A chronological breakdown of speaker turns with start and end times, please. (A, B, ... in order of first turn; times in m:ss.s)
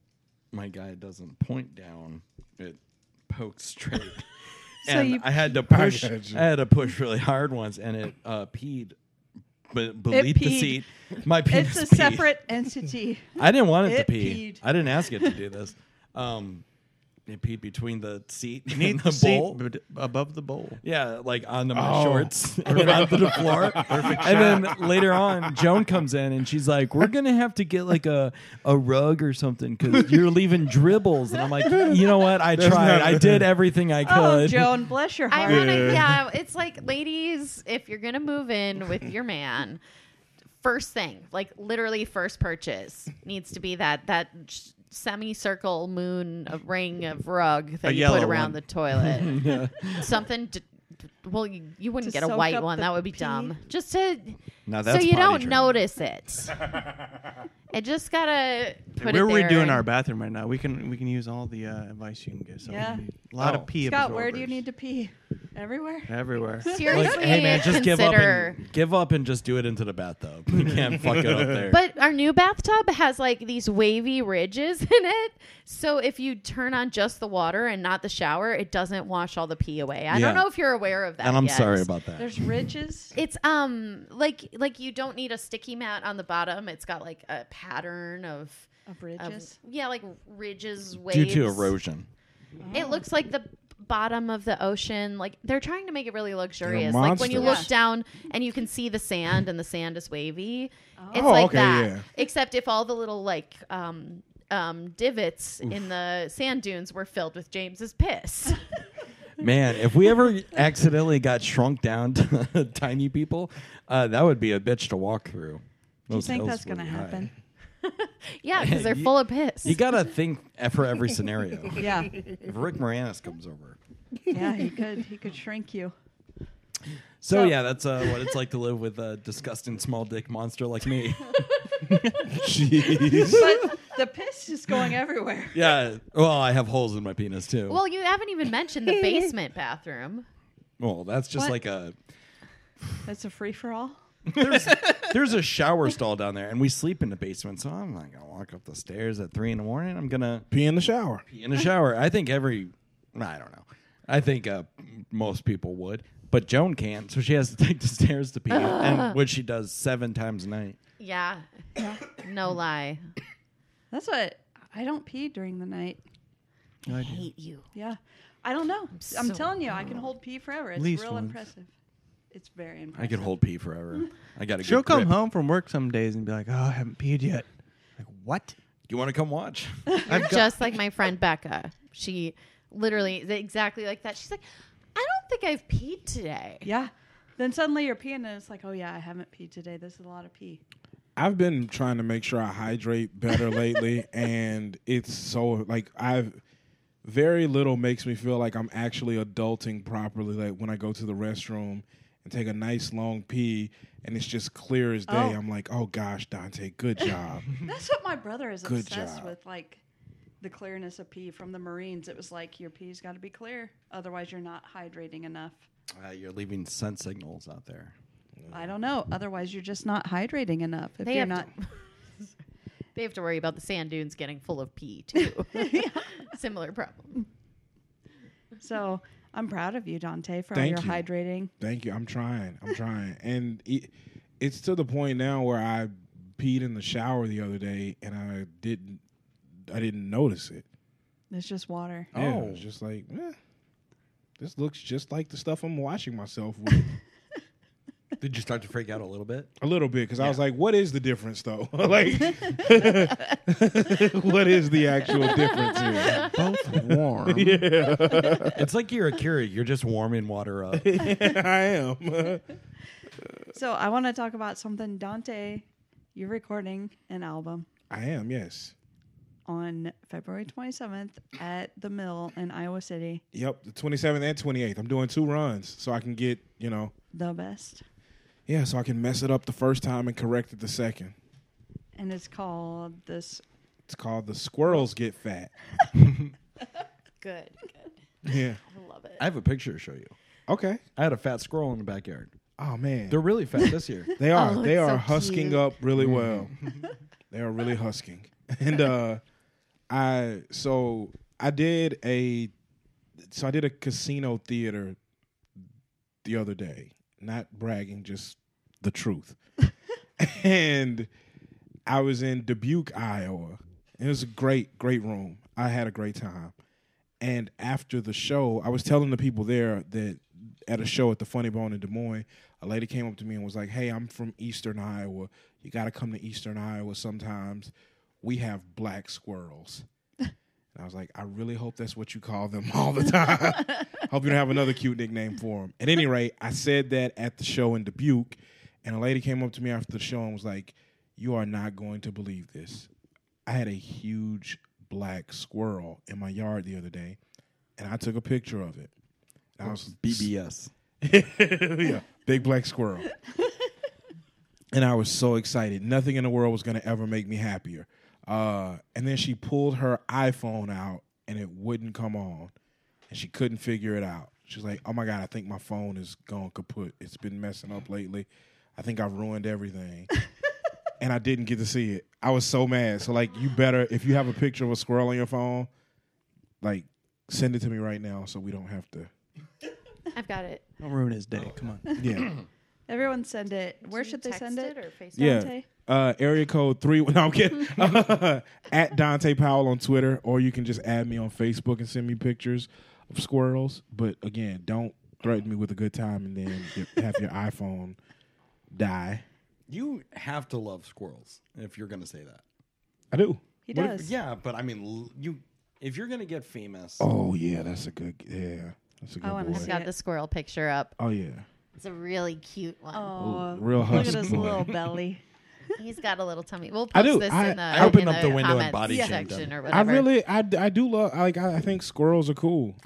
0:00.5-0:09.0 A
0:04.8-0:05.3 B
0:05.6-0:06.5 C
0:09.7-0:12.3 A
0:10.1-0:10.8 B
0:11.4-0:14.6 B
0:13.4-0:16.6 A
0:17.3-0:19.6 A
0:18.7-0:20.8 D
0:20.8-0:34.8 A
0:21.7-0:25.6 C
0:23.7-0:24.8 D
0:31.6-0:33.5 C
0:34.0-0:36.0 B
0:35.3-0:39.8 E
0:35.4-0:36.2 C
0:40.6-0:50.6 E
0:47.8-0:48.6 D
0:48.1-0:48.5 A
0:49.0-0:50.1 A
0:51.2-0:56.7 E
0:52.0-0:53.6 B
0:54.6-0:55.8 A
0:57.7-0:59.8 E
0:59.0-1:04.6 D
1:02.6-1:03.1 B
1:03.4-1:03.7 A
1:03.8-1:07.2 B
1:06.1-1:06.8 D
1:06.6-1:08.6 E
1:06.8-1:11.8 A
1:11.7-1:21.9 E
1:20.1-1:20.4 A
1:21.2-1:22.4 A
1:22.2-1:23.2 B
1:23.2-1:31.7 E
1:28.9-1:29.5 B
1:31.1-1:32.1 A
1:32.6-1:33.0 B
1:32.7-1:48.6 E
1:36.6-1:37.7 C
1:37.4-1:37.7 B
1:41.0-1:41.4 B
1:41.1-1:42.0 C
1:49.4-1:57.3 A
1:56.1-1:57.3 B
1:57.8-1:59.8 E
1:58.5-2:03.8 A
2:01.8-2:02.2 B
2:04.3-2:05.9 B
2:07.2-2:11.6 A
2:07.3-2:07.5 B
2:12.3-2:13.6 C
2:13.3-2:15.6 B
2:15.5-2:17.8 A
2:17.7-2:20.2 E
2:20.8-2:21.9 A
2:23.0-2:24.0 B
2:24.3-2:30.5 A
2:24.4-2:25.0 D
2:30.5-2:31.2 C
2:31.3-2:40.8 A
2:38.5-2:39.2 E
2:41.0-2:41.4 E
2:42.0-2:43.0 E
2:43.9-2:46.0 B
2:46.8-2:47.3 D
2:46.9-2:47.6 E
2:47.7-2:51.7 B
2:49.0-2:49.5 E
2:50.7-2:51.4 D
2:52.3-2:53.4 B
2:52.9-2:55.1 A
2:54.6-2:58.5 D
2:58.9-3:00.3 A
3:00.1-3:00.5 D
3:00.1-3:04.4 E
3:04.9-3:06.7 E
3:06.6-3:10.6 B
3:11.2-3:16.4 C
3:17.0-3:27.5 C
3:25.1-3:25.4 B
3:27.6-3:29.8 B
3:28.6-3:29.3 C
3:30.4-3:35.7 B
3:36.0-3:37.9 A
3:38.4-3:38.7 C
3:38.5-3:41.5 B
3:41.0-3:42.3 E
3:42.9-3:47.2 E
3:45.5-3:46.0 B
3:48.6-3:51.5 B
3:50.5-3:51.1 C
3:51.6-3:59.0 C
3:59.7-4:00.6 C
4:01.3-4:02.1 B
4:02.1-4:03.4 C
4:02.1-4:02.6 A
4:04.4-4:06.9 C
4:08.2-4:09.5 A
4:09.6-4:18.6 C
4:16.1-4:17.6 D
4:18.5-4:21.0 A
4:20.7-4:22.4 C
4:23.5-4:27.7 B
4:27.9-4:28.7 C
4:29.4-4:33.2 B
4:33.3-4:36.9 C
4:37.1-4:37.8 B
4:38.5-4:41.1 C
4:42.0-4:43.4 B
4:43.9-4:45.5 C
4:47.2-4:49.2 E
4:48.2-4:48.6 C
4:49.2-4:50.1 A
4:50.5-4:50.8 C
4:51.0-4:52.3 A
4:52.6-4:53.2 C
4:53.1-4:54.2 A
4:54.2-4:56.5 C
4:54.3-4:55.7 E
4:56.0-4:56.5 A
4:57.3-4:59.2 C
4:59.9-5:02.5 C
5:03.2-5:05.0 C
5:06.2-5:09.4 C
5:10.2-5:11.1 C
5:11.9-5:16.5 C
5:17.2-5:29.8 C
5:30.7-5:42.9 C
5:43.4-5:47.2 C
5:47.8-5:48.9 C
5:49.6-5:50.3 C
5:49.6-5:50.7 A
5:51.0-5:53.1 C
5:54.7-6:02.5 C
6:03.1-6:10.1 C
6:11.0-6:15.7 C
6:16.6-6:19.1 C
6:20.1-6:20.6 E
6:20.8-6:22.0 D
6:22.0-6:22.3 C
6:22.9-6:25.6 B
6:23.8-6:25.5 E
6:25.2-6:38.0 C
6:38.7-6:39.2 C
6:39.7-6:42.4 A
6:43.1-6:44.0 C
6:43.6-6:44.1 B
6:43.9-6:47.1 A
6:47.0-6:49.7 C
6:49.2-6:49.9 B
6:49.5-6:50.9 E
6:51.0-6:51.4 C
6:51.8-6:53.2 E
6:52.9-6:55.2 B
6:53.2-6:54.7 C
6:55.8-7:00.1 E
6:56.9-6:58.0 C
6:57.7-6:59.5 A
6:58.8-6:59.2 B
6:59.7-7:02.8 C